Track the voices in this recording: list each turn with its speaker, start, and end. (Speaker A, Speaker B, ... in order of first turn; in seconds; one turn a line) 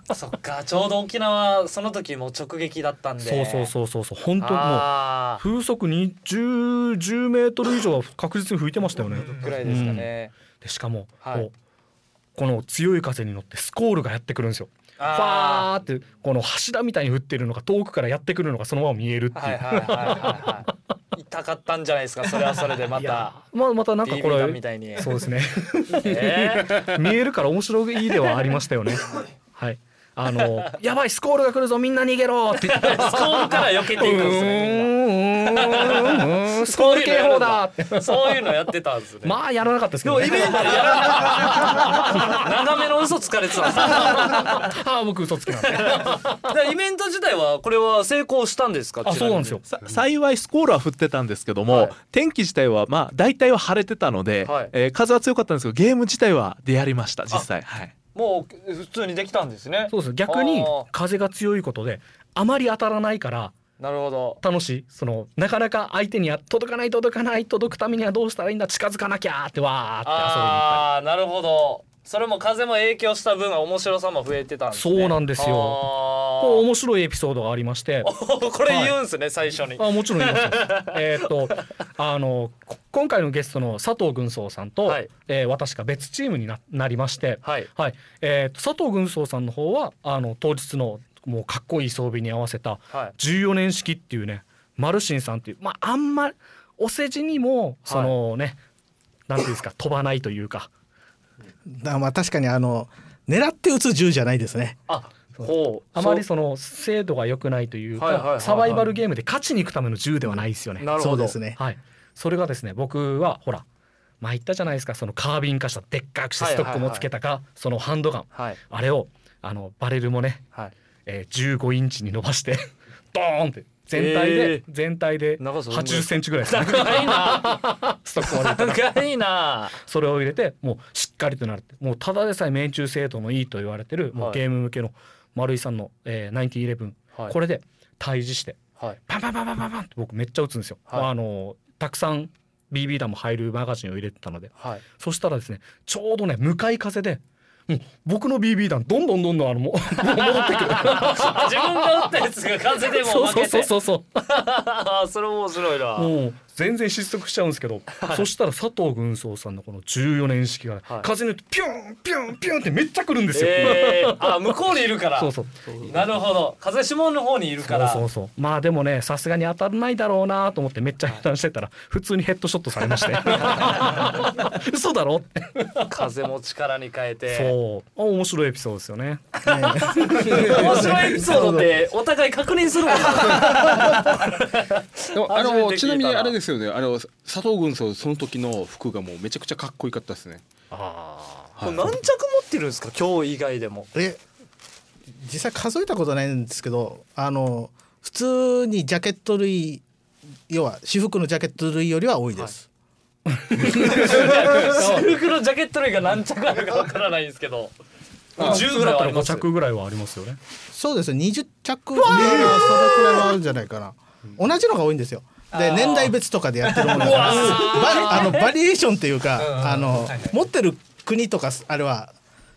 Speaker A: 0.1-3.7
Speaker B: 3.2-10.1
Speaker A: 4.4-5.4
Speaker A: 9.2-10.3
Speaker B: 10.6-11.5
Speaker A: 11.2-11.5
Speaker B: 12.3-20.6
Speaker A: 15.0-15.7
Speaker A: 19.4-23.4
Speaker B: 23.0-38.5
Speaker A: 24.0-25.2
Speaker A: 25.9-27.0
Speaker A: 32.6-34.9
Speaker A: 35.5-39.4
Speaker B: 39.2-42.5
Speaker A: 40.0-44.7
Speaker B: 43.7-46.4
Speaker A: 45.6-49.6
Speaker B: 49.1-49.6
Speaker C: 49.7-57.9
Speaker A: 54.4-54.7
Speaker A: 58.1-60.9
Speaker B: 59.9-63.5
Speaker A: 63.8-64.4
Speaker B: 64.4-70.9
Speaker A: 70.0-76.7
Speaker B: 74.7-78.1
Speaker A: 78.0-81.5
Speaker B: 78.7-79.0
Speaker B: 79.8-98.6
Speaker A: 87.4-87.7
Speaker A: 97.8-98.2
Speaker B: 99.3-100.7
Speaker D: 101.7-104.8
Speaker A: 104.9-106.2
Speaker B: 105.4-110.9
Speaker A: 108.0-108.9
Speaker A: 110.8-111.4
Speaker D: 111.0-111.6
Speaker B: 111.6-113.7
Speaker B: 114.2-120.5
Speaker A: 116.4-117.1
Speaker A: 118.3-118.6
Speaker B: 121.1-129.0
Speaker A: 123.9-124.6
Speaker A: 125.4-127.6
Speaker A: 128.2-129.8
Speaker B: 129.8-152.1
Speaker A: 134.2-134.4
Speaker A: 150.2-153.7
Speaker B: 152.8-154.2
Speaker A: 154.2-156.1
Speaker B: 156.0-164.5
Speaker A: 163.3-165.3
Speaker B: 165.2-165.9
Speaker A: 165.8-168.0
Speaker B: 167.6-176.0
Speaker A: 175.9-177.5
Speaker B: 177.3-179.4
Speaker D: 179.5-181.7
Speaker A: 179.6-186.4
Speaker E: 180.2-181.1
Speaker E: 183.4-184.0
Speaker E: 185.1-190.4
Speaker B: 190.7-191.5
Speaker E: 191.6-191.9
Speaker A: 191.6-193.9
Speaker D: 195.2-199.8
Speaker D: 200.5-202.7
Speaker B: 203.3-205.2
Speaker A: 203.6-207.7
Speaker A: 208.4-209.5
Speaker B: 208.4-210.4
Speaker D: 210.7-222.2
Speaker A: 211.9-213.3
Speaker A: 215.5-216.2
Speaker A: 216.9-218.5
Speaker C: 219.4-220.3